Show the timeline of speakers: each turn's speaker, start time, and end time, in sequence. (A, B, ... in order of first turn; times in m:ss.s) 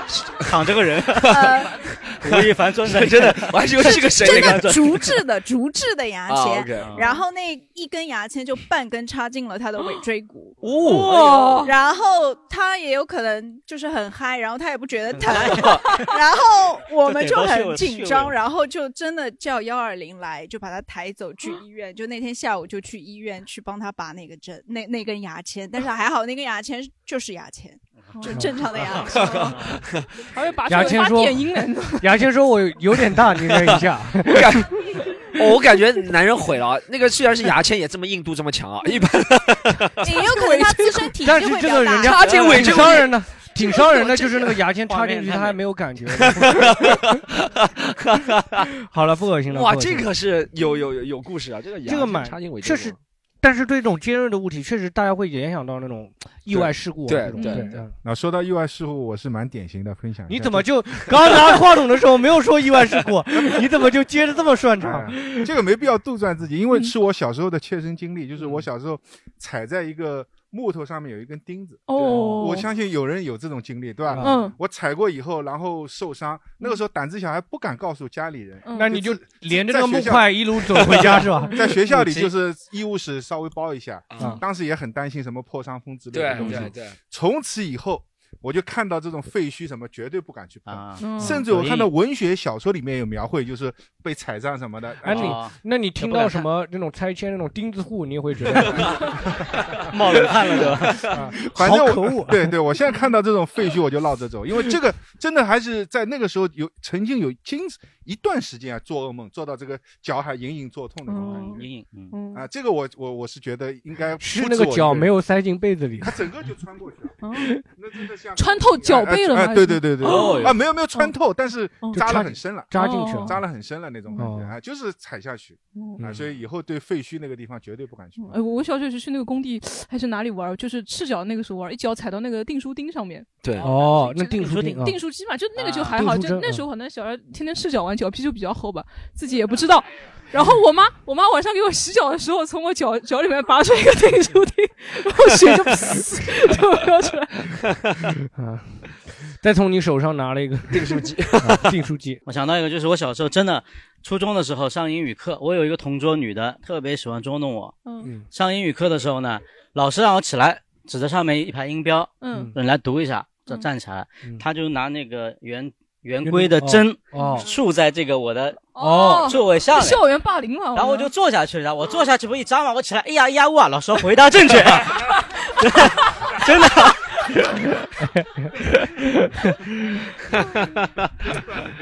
0:00.4-0:01.6 A
0:01.1-0:04.9 B
0:01.3-0:01.7 C
0:02.2-0:05.1 A
0:04.2-0:10.6 C
0:06.3-0:07.0 B
0:06.8-0:07.1 A
0:10.6-0:11.6 B
0:10.9-0:11.8 D
0:11.6-0:29.4 C
0:15.1-0:16.0 A
0:15.5-0:15.8 B
0:17.0-0:18.3 A
0:28.8-0:29.8 A
0:29.1-0:29.5 D
0:29.1-0:30.0 B
0:30.2-0:32.2 D
0:30.7-0:34.7 E
0:33.5-0:40.2 B
0:40.0-0:42.3 C
0:40.3-0:41.1 D
0:41.2-0:47.1 E
0:42.1-0:43.2 B
0:42.2-0:42.6 D
0:44.8-0:45.6 A
0:46.2-0:48.7 B
0:48.9-0:50.1 E
0:49.5-0:53.0 B
0:51.8-0:57.9 E
0:56.5-0:57.8 B
0:57.3-0:57.8 D
0:58.0-1:00.7 F
1:00.3-1:05.5 E
1:04.8-1:35.4 F
1:11.9-1:12.7 D
1:12.1-1:12.5 E
1:14.1-1:14.4 E
1:14.2-1:14.6 D
1:18.6-1:19.0 D
1:18.7-1:22.2 E
1:24.1-1:24.4 B
1:26.1-1:26.9 B
1:30.6-1:31.9 A
1:31.0-1:31.4 D
1:35.0-1:39.0 E
1:35.0-1:36.5 A
1:39.8-1:41.2 A
1:41.0-1:42.5 E
1:41.4-1:51.6 F
1:51.1-1:52.5 D
1:51.1-1:52.2 A
1:52.3-1:55.1 F
1:54.2-1:56.2 E
1:56.0-2:08.4 F
1:57.2-1:57.5 D
1:58.4-2:01.1 D
2:00.1-2:00.4 B
2:01.8-2:02.1 D
2:01.9-2:03.4 E
2:02.7-2:03.4 D
2:04.2-2:04.5 E
2:05.7-2:06.0 D
2:08.2-2:27.5 D
2:13.4-2:13.7 B
2:13.6-2:15.0 E
2:13.6-2:14.9 A
2:15.6-2:16.0 A
2:15.9-2:16.6 E
2:28.3-2:32.2 E
2:30.7-2:31.7 B
2:32.2-2:50.1 A
2:37.8-2:38.1 D
2:42.2-2:42.5 D
2:46.2-2:47.5 E
2:47.1-2:47.5 D
2:48.7-2:51.1 D
2:48.8-2:49.3 E
2:50.7-2:57.2 A
2:58.0-2:58.5 E
2:59.2-2:59.5 E
3:00.3-3:01.1 B